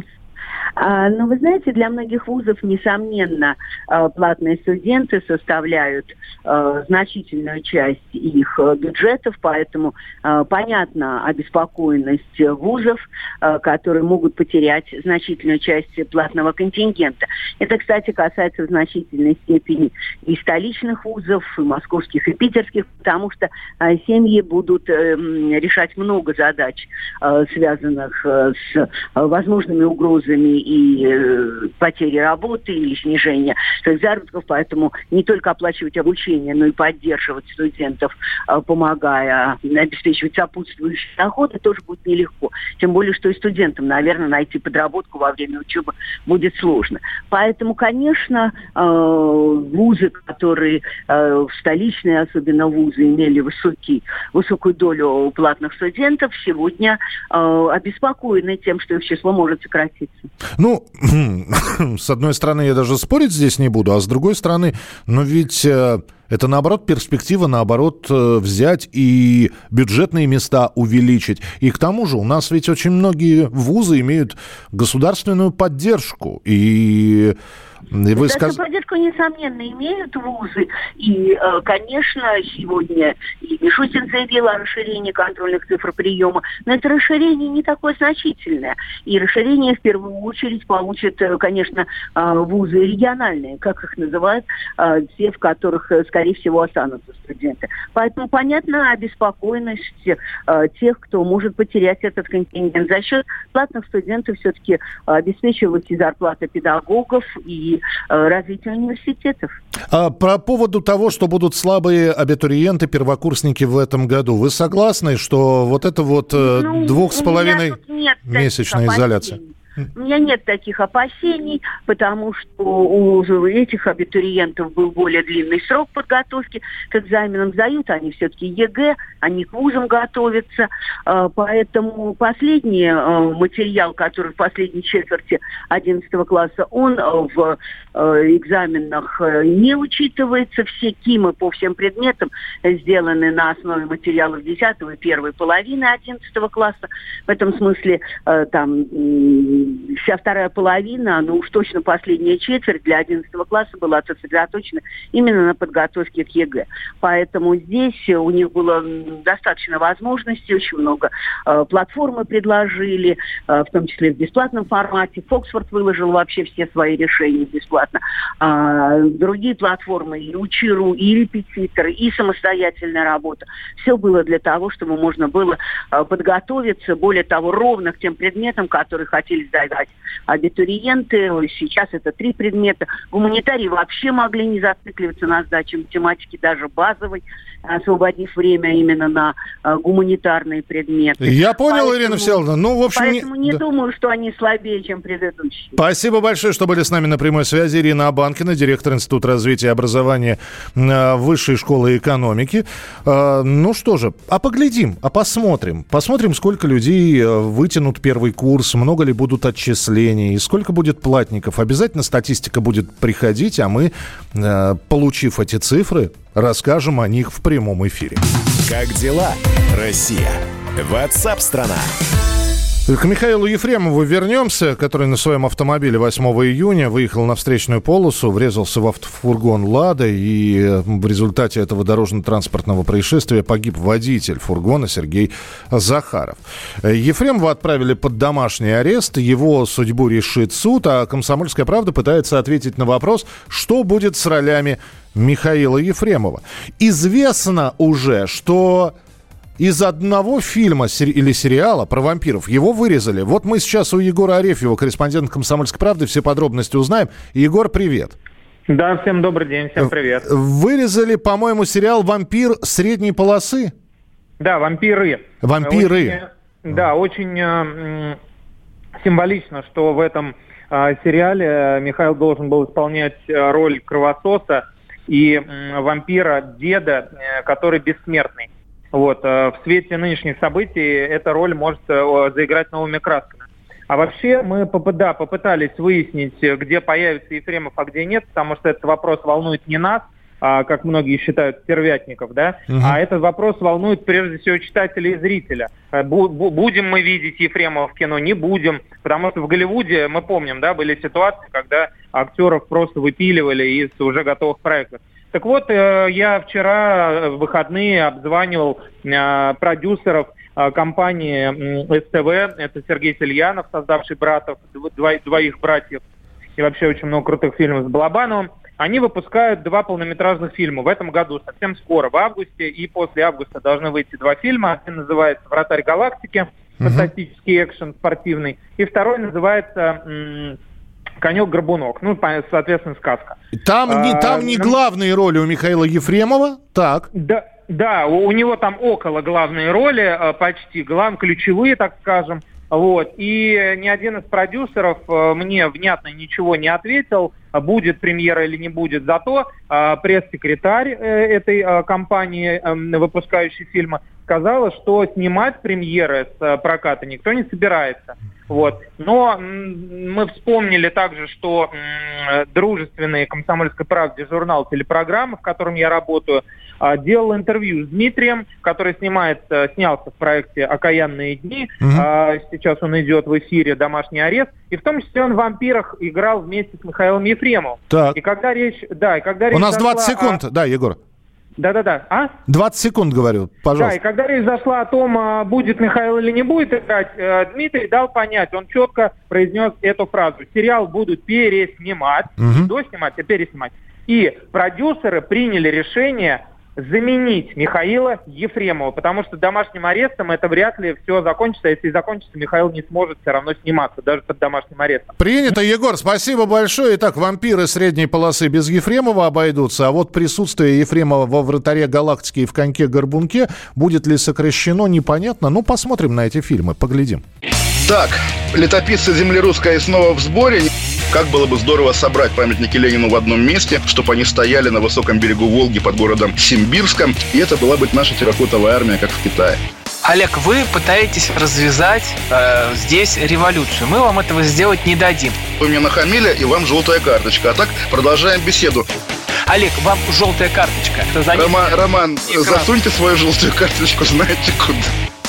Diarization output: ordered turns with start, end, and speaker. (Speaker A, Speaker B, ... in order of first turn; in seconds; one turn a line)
Speaker A: 0.8-60.3
Speaker B: 60.6-77.3
Speaker B: 77.9-78.6
Speaker A: 78.1-109.5
Speaker B: 109.9-119.4
Speaker A: 116.3-195.8
Speaker B: 191.2-193.5
Speaker B: 195.8-218.2
Speaker C: 218.7-221.9
Speaker B: 222.8-248.9
Speaker B: 249.6-258.1
Speaker D: 258.7-260.2
Speaker B: 259.8-263.7
Speaker D: 264.4-268.2
Speaker B: 265.4-266.2
Speaker D: 269.0-316.0
Speaker B: 292.7-292.9
Speaker D: 316.6-330.6
Speaker B: 326.8-327.1
Speaker D: 331.2-333.4
Speaker B: 333.5-337.1
Speaker D: 333.9-334.7
Speaker D: 337.1-380.4
Speaker B: 371.8-372.1
Speaker B: 377.9-378.2
Speaker B: 379.5-381.0
Speaker D: 381.6-382.4
Speaker B: 382.5-383.9
Speaker D: 383.8-405.1
Speaker B: 392.4-392.7
Speaker B: 405.2-417.2
Speaker E: 417.9-429.6
Speaker F: 430.0-435.4
Speaker E: 435.6-438.9
Speaker F: 439.5-442.7
Speaker E: 441.3-444.9